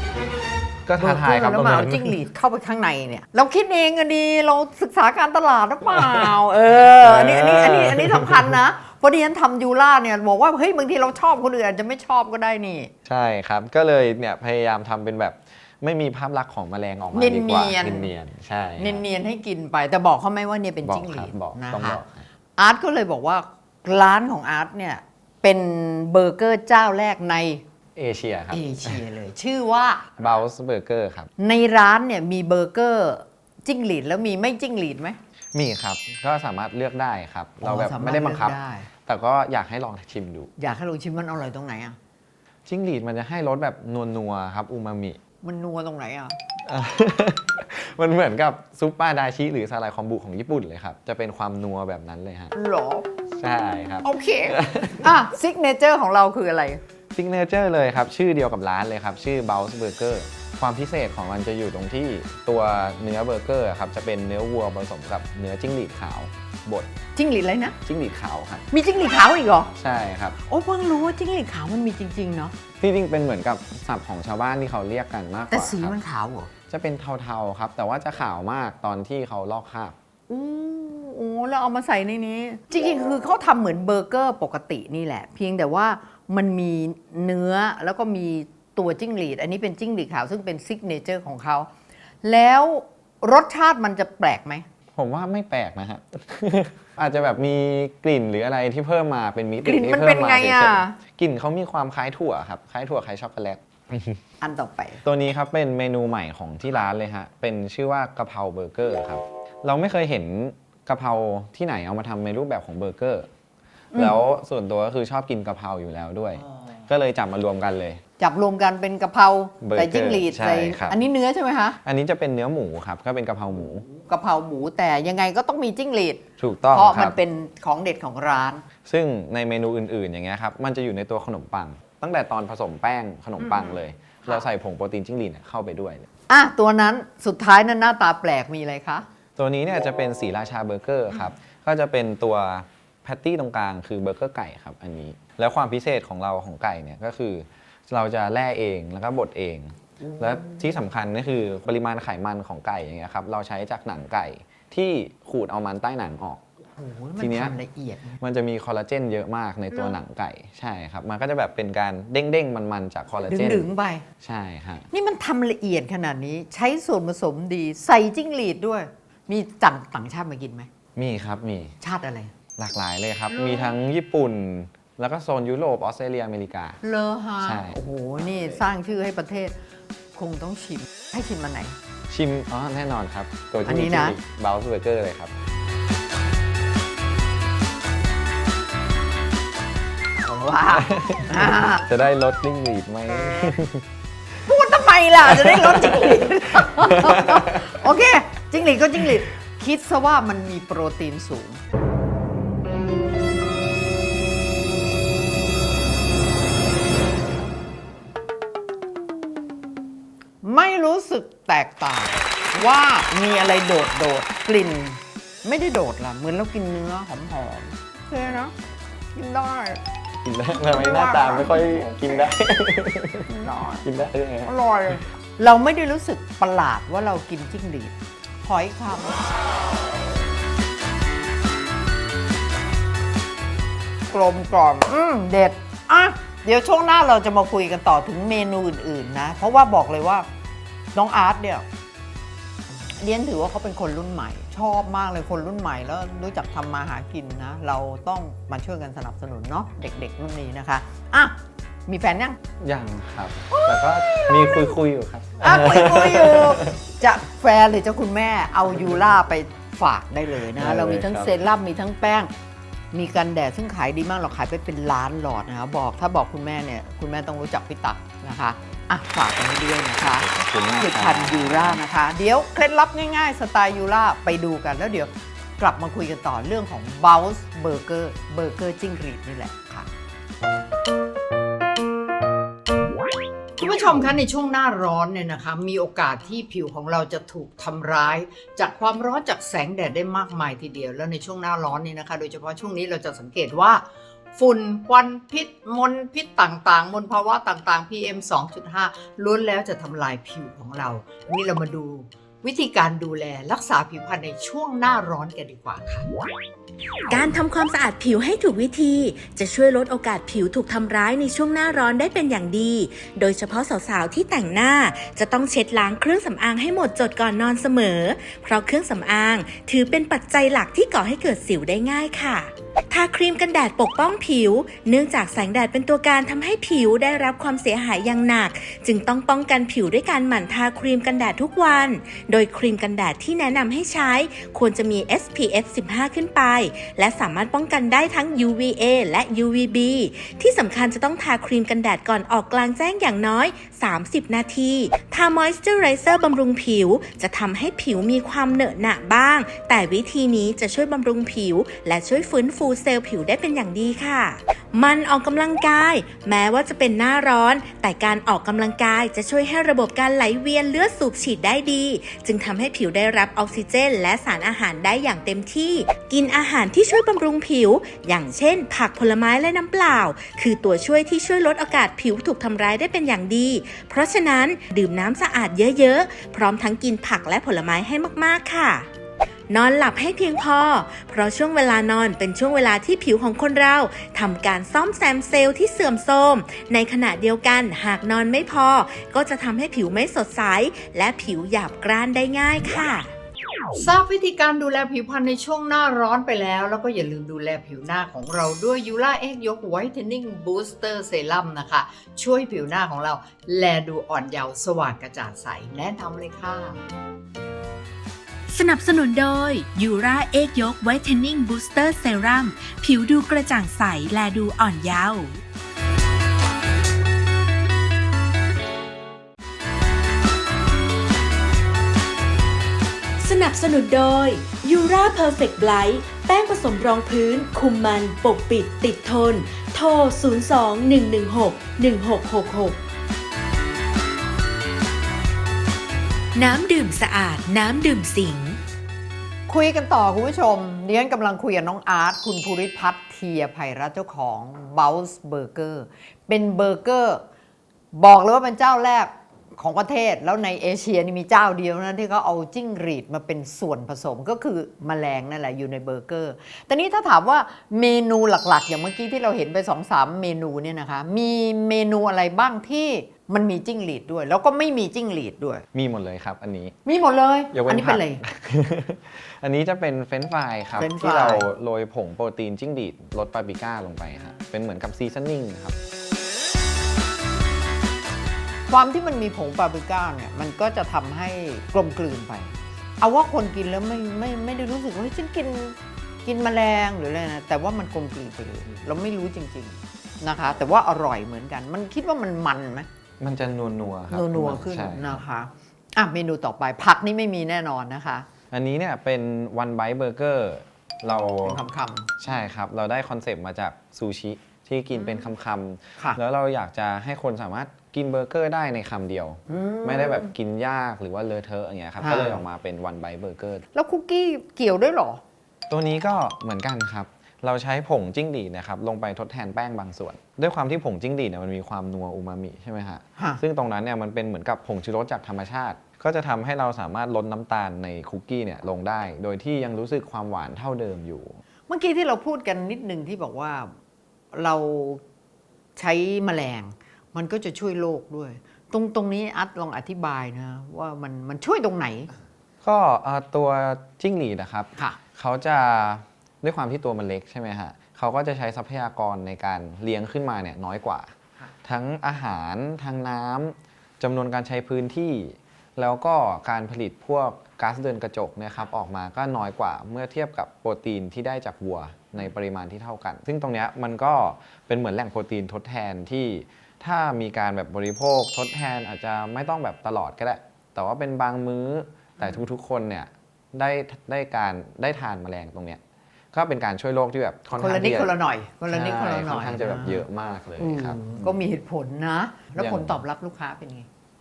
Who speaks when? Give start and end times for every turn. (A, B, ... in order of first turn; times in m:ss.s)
0:00.9-0:02.2 A
0:01.0-0:12.9 B
0:06.0-0:06.3 A
0:06.9-0:08.5 A
0:13.1-0:19.0 A
0:17.1-0:18.1 B
0:18.8-0:22.0 B
0:20.8-0:22.3 A
0:22.6-0:27.6 B
0:28.0-0:29.0 A
0:28.5-0:30.2 B
0:30.2-0:31.3 A
0:31.4-0:35.2 B
0:35.5-0:40.5 A
0:37.6-0:38.9 B
0:40.6-0:42.0 B
0:42.7-0:45.2 A
0:45.4-0:46.4 B
0:46.7-0:52.5 A
0:52.5-0:53.1 B
0:53.4-0:55.1 A
0:54.0-0:56.8 B
0:57.1-1:06.9 A
1:07.2-1:07.8 B
1:07.8-1:08.6 A
1:08.7-1:09.7 B
1:09.8-1:10.4 A
1:10.4-1:12.6 B
1:12.8-1:16.0 A
1:15.5-1:16.5 B
1:16.7-1:20.0 A
1:20.3-1:31.7 B
1:32.2-1:34.7 B
1:35.0-1:44.2 A
1:39.6-1:41.0 B
1:44.4-1:45.0 B
1:45.0-1:53.3 A
1:53.9-1:58.0 A
1:58.2-2:01.8 B
1:59.6-2:01.0 A
2:01.8-2:03.9 A
2:03.9-2:08.6 B
2:06.4-2:07.2 A
2:08.9-2:16.1 A
2:13.4-2:14.5 B
2:16.3-2:19.1 B
2:19.4-2:36.4 A
2:30.1-2:30.6 B
2:36.8-2:38.2 B
2:37.2-2:37.6 A
2:38.2-2:43.7 A
2:43.3-2:44.1 B
2:44.2-2:44.9 A
2:44.9-2:50.7 B
2:51.0-2:51.8 A
2:51.8-2:52.3 B
2:52.6-2:56.8 A
2:53.3-2:53.8 B
2:56.8-2:59.6 B
2:57.4-2:58.5 A
3:00.1-3:01.8 B
3:02.1-3:05.3 A
3:03.6-3:04.2 B
3:10.2-3:11.9 B
3:10.7-3:13.8 A
3:14.4-3:21.6 B
3:15.3-3:16.2 A
3:16.8-3:17.6 A
3:30.4-3:38.5 B
3:39.1-3:39.8 B
3:40.2-3:44.5 A
3:40.6-3:42.3 B
3:43.3-3:43.9 B
3:44.4-3:49.2 B
3:54.1-4:00.3 B
4:00.9-4:01.7 B
4:02.8-4:11.4 B
4:11.9-4:12.4 B
4:12.6-4:16.8 A
4:13.5-4:14.6 B
4:15.4-4:22.3 B
4:20.6-4:21.3 A
4:22.9-4:39.9 B
4:30.0-4:31.8 A
4:43.6-5:06.1 B
5:07.1-6:18.9 C
6:19.5-6:33.1 C
6:33.7-6:46.8 B
6:48.5-6:55.4 C
7:03.2-7:12.8 C
7:16.4-7:18.6 C
7:19.5-7:27.2 B
7:27.9-7:45.6 B
7:45.7-7:46.8 A
7:46.8-7:48.2 B
7:47.5-7:55.8 A
7:50.8-7:51.5 B
7:58.7-8:12.9 B
8:13.2-8:15.2 A
8:14.1-8:18.3 B
8:18.5-8:21.6 A
8:21.4-8:22.1 B
8:22.2-8:33.6 A
8:29.5-8:30.3 B
8:32.0-8:32.4 B
8:33.8-8:35.2 B
8:35.7-8:51.4 A
8:43.2-8:43.4 B
8:51.7-8:53.7 B
8:54.3-8:55.0 B
8:55.8-9:02.1 B
9:02.6-9:11.1 A
9:11.6-9:35.8 A
9:36.3-9:38.2 A
9:37.5-9:40.0 B
9:38.7-9:41.4 A
9:40.6-9:43.9 B
9:42.6-9:43.0 A